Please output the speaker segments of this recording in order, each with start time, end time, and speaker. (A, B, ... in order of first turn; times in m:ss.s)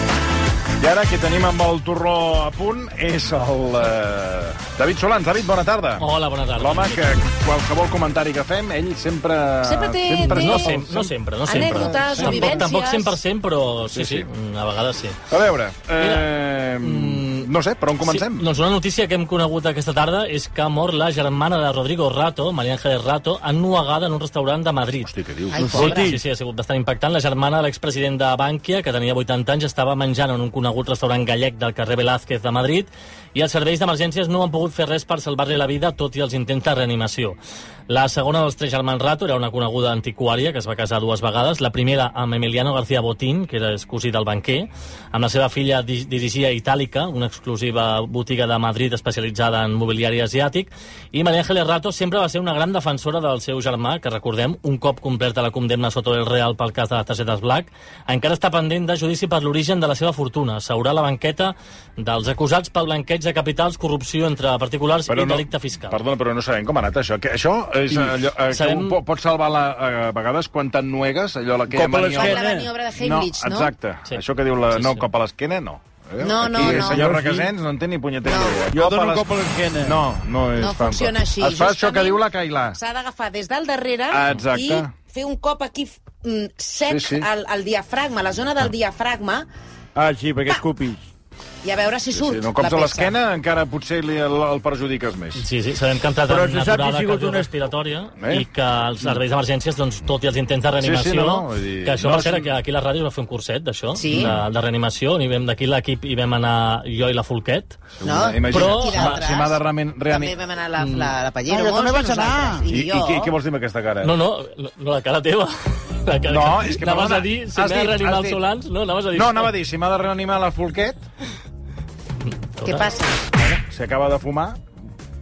0:00.8-0:06.0 A
0:06.0-0:07.1 B
0:06.6-0:12.7 A
0:09.6-0:10.8 C
0:10.2-0:15.2 B
0:11.4-0:13.2 C
0:13.9-0:14.3 A
0:15.3-0:18.5 A
0:16.0-0:17.5 B
0:18.0-0:37.4 B
0:25.0-0:25.8 A
0:25.5-0:26.2 C
0:25.6-0:26.1 D
0:37.9-1:06.0 B
1:05.1-1:12.4 A
1:08.5-1:09.0 B
1:11.7-1:12.7 D
1:12.1-1:13.7 C
1:12.9-1:22.8 A
1:14.1-1:15.1 B
1:16.2-1:17.1 C
1:16.6-1:17.5 D
1:18.2-1:18.7 C
1:18.7-1:20.0 D
1:20.6-1:29.4 C
1:24.1-1:24.9 A
1:26.8-1:27.3 A
1:29.9-1:31.0 D
1:31.6-1:33.2 C
1:32.1-1:35.4 A
1:35.4-1:47.8 B
1:36.3-1:37.5 D
1:38.2-1:38.4 A
1:40.8-1:42.5 A
1:43.9-1:44.3 C
1:44.1-1:44.4 A
1:48.0-1:50.3 A
1:48.0-1:53.3 C
1:48.5-1:49.2 B
1:50.8-1:51.1 B
1:51.5-1:52.7 D
1:52.7-1:54.1 A
1:54.0-1:59.5 B
1:56.3-1:58.4 A
1:59.1-2:01.0 A
2:02.5-2:02.9 B
2:02.6-2:03.2 C
2:03.4-2:04.6 A